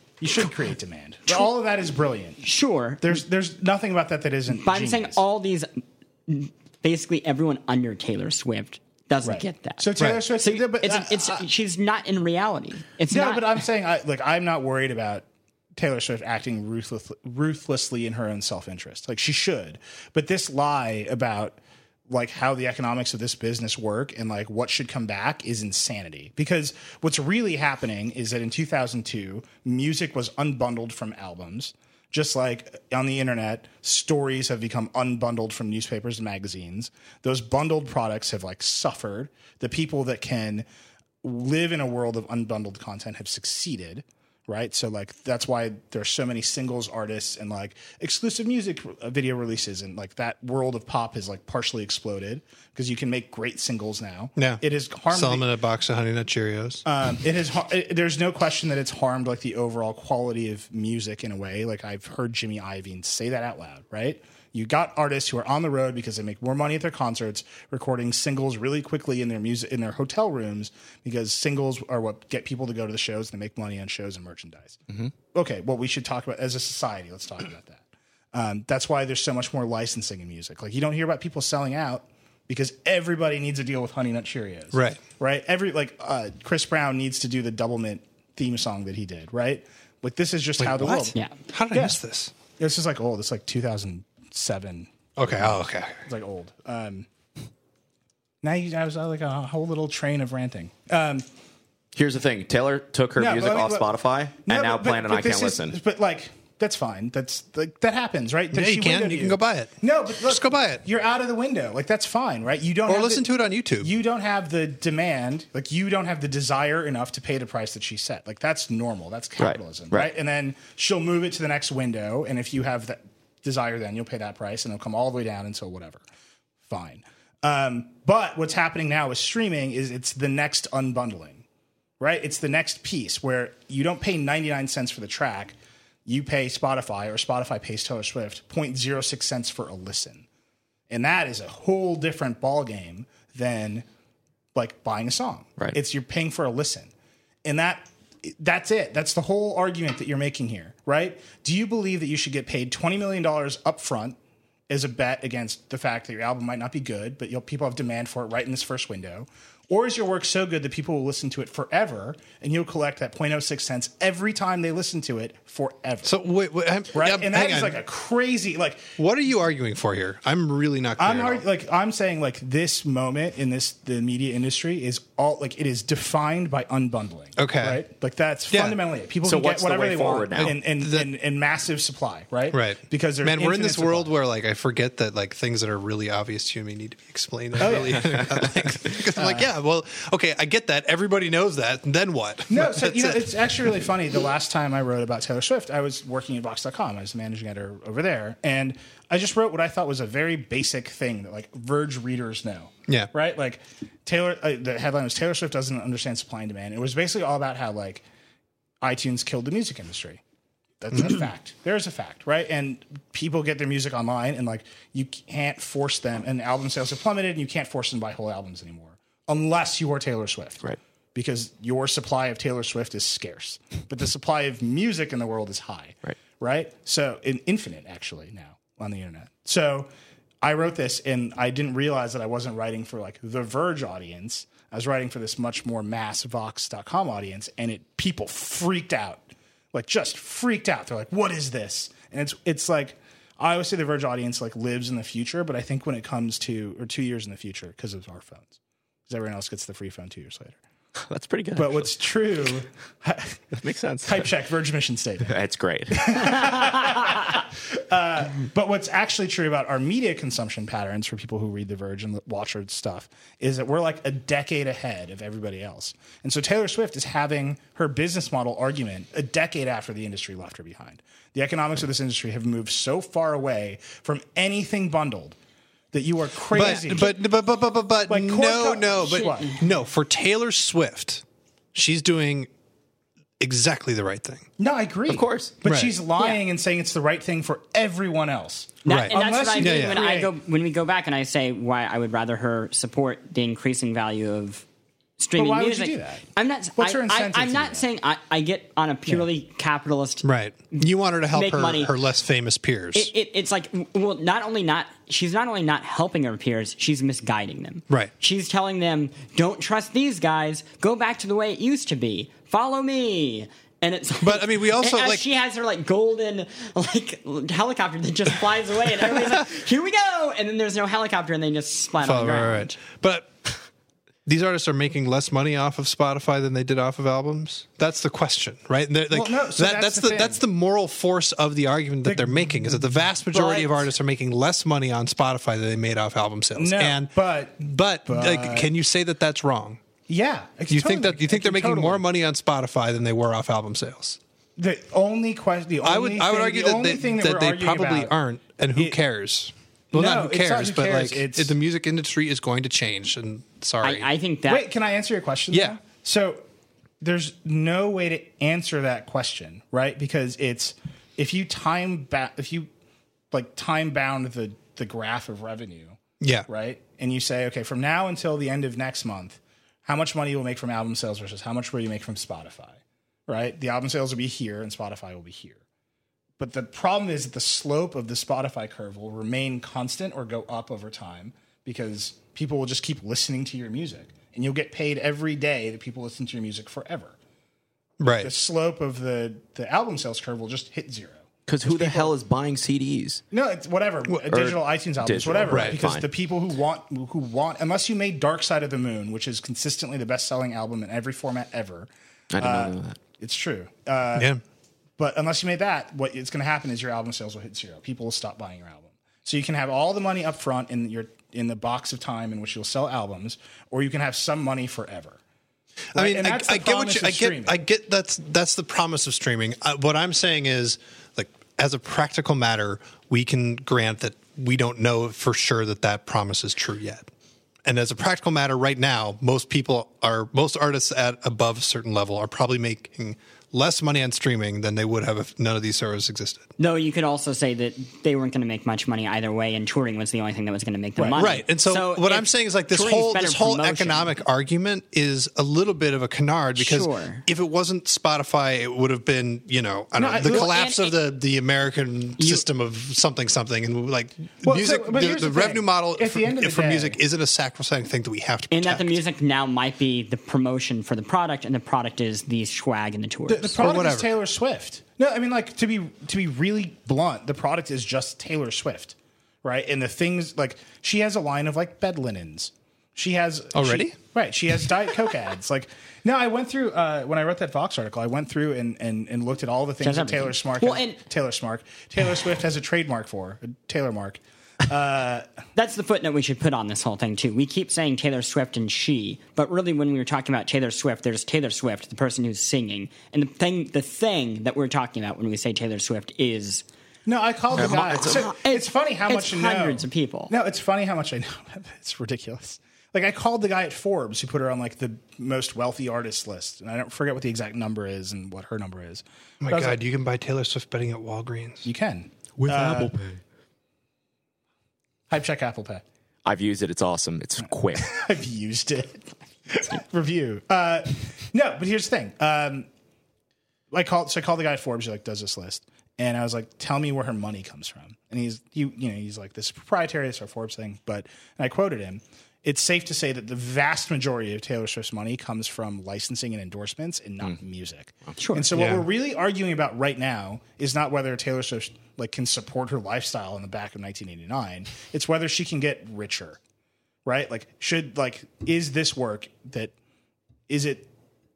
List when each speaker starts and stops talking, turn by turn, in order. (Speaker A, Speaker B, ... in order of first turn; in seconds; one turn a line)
Speaker A: 0.2-2.4
Speaker B: 2.4-3.2
Speaker A: 3.0-5.2
Speaker B: 4.5-13.6
Speaker A: 9.2-11.4
Speaker C: 10.0-10.2
Speaker A: 13.1-40.7
Speaker A: 41.2-55.5
Speaker C: 54.4-56.8
Speaker A: 56.8-74.8
Speaker A: 75.3-91.2
Speaker C: 84.7-85.0
Speaker C: 90.6-92.3
Speaker A: 91.7-92.0
Speaker A: 92.6-97.1
Speaker C: 95.2-95.9
Speaker A: 98.4-101.2
Speaker D: 101.9-105.8
Speaker A: 103.2-103.9
Speaker A: 104.4-126.0
Speaker C: 108.5-110.8
Speaker C: 112.9-113.9
Speaker D: 119.4-120.1
Speaker A: 126.6-131.4
Speaker A: 132.0-140.2
Speaker A: 140.9-143.8
Speaker A: 144.5-146.9
Speaker A: 147.4-154.2
Speaker A: 154.7-166.1
Speaker C: 166.0-167.8
Speaker A: 166.9-169.0
Speaker C: 169.0-171.4
Speaker A: 171.0-184.1
Speaker C: 177.4-177.8
Speaker C: 178.5-178.8
Speaker D: 179.2-180.5
Speaker C: 180.3-181.1
Speaker C: 182.5-193.3
Speaker A: 187.6-188.5
Speaker D: 187.9-188.5
Speaker A: 189.1-189.5
Speaker A: 192.5-208.0
Speaker A: 208.8-210.2
Speaker A: 210.8-220.6
Speaker A: 221.1-229.9
Speaker A: 230.4-248.6
Speaker A: 249.1-250.6
Speaker D: 251.0-251.9
Speaker A: 251.5-253.4
Speaker D: 253.5-254.3
Speaker A: 254.0-255.3
Speaker D: 255.2-256.5
Speaker A: 255.9-275.4
Speaker A: 275.9-277.2
Speaker C: 276.5-281.2
Speaker A: 278.1-279.5
Speaker C: 281.7-282.5
Speaker C: 283.4-284.4
Speaker A: 284.6-290.3
Speaker D: 285.1-285.5
Speaker C: 285.6-285.9
Speaker B: 288.8-294.6
Speaker C: 288.9-290.0
Speaker B: 295.2-301.9
Speaker A: 295.4-296.2
Speaker A: 296.8-297.8
Speaker C: 300.2-303.1
Speaker B: 302.9-322.8
Speaker C: 314.2-315.2
Speaker C: 322.0-323.3
Speaker C: 324.2-339.8
Speaker A: 329.1-330.4
Speaker A: 332.0-333.9
Speaker A: 336.6-338.7
Speaker A: 340.1-342.0
Speaker C: 340.7-344.2
Speaker A: 344.6-348.1
Speaker C: 345.8-354.1
Speaker A: 349.9-351.5
Speaker B: 353.8-354.7
Speaker A: 354.5-356.4
Speaker C: 355.5-355.8
Speaker A: 357.0-362.7
Speaker A: 363.3-375.6
Speaker C: 366.2-366.5
Speaker A: 376.4-387.2
Speaker C: 388.0-388.3
Speaker A: 388.2-392.1
Speaker D: 391.5-393.2
Speaker A: 393.3-404.3
Speaker D: 394.3-396.1
Speaker C: 395.5-395.8
Speaker D: 402.3-403.0
Speaker C: 404.1-404.4
Speaker A: 405.0-415.2
Speaker C: 415.9-427.1
Speaker A: 415.9-417.6
Speaker C: 427.6-436.5
Speaker B: 436.6-444.1
Speaker A: 440.9-441.2
Speaker C: 441.2-459.0
Speaker B: 446.6-447.2
Speaker A: 450.0-450.5
Speaker B: 450.2-450.9
Speaker B: 452.2-452.4
Speaker A: 454.4-457.0
Speaker B: 458.5-463.6
Speaker A: 463.3-485.3
Speaker C: 463.6-464.1
Speaker C: 473.5-473.9
Speaker B: 479.8-481.0
Speaker B: 485.6-496.6
Speaker A: 497.1-509.8
Speaker D: 497.5-498.2
Speaker B: 497.6-500.3
Speaker C: 509.4-511.6
Speaker A: 511.6-512.9
Speaker D: 512.4-513.2
Speaker A: 515.1-515.8
Speaker D: 516.2-518.0
Speaker A: 517.8-522.7
Speaker A: 523.7-546.4
Speaker B: 538.2-538.5
Speaker C: 538.5-538.9
Speaker A: 547.0-549.7
Speaker A: 550.5-550.9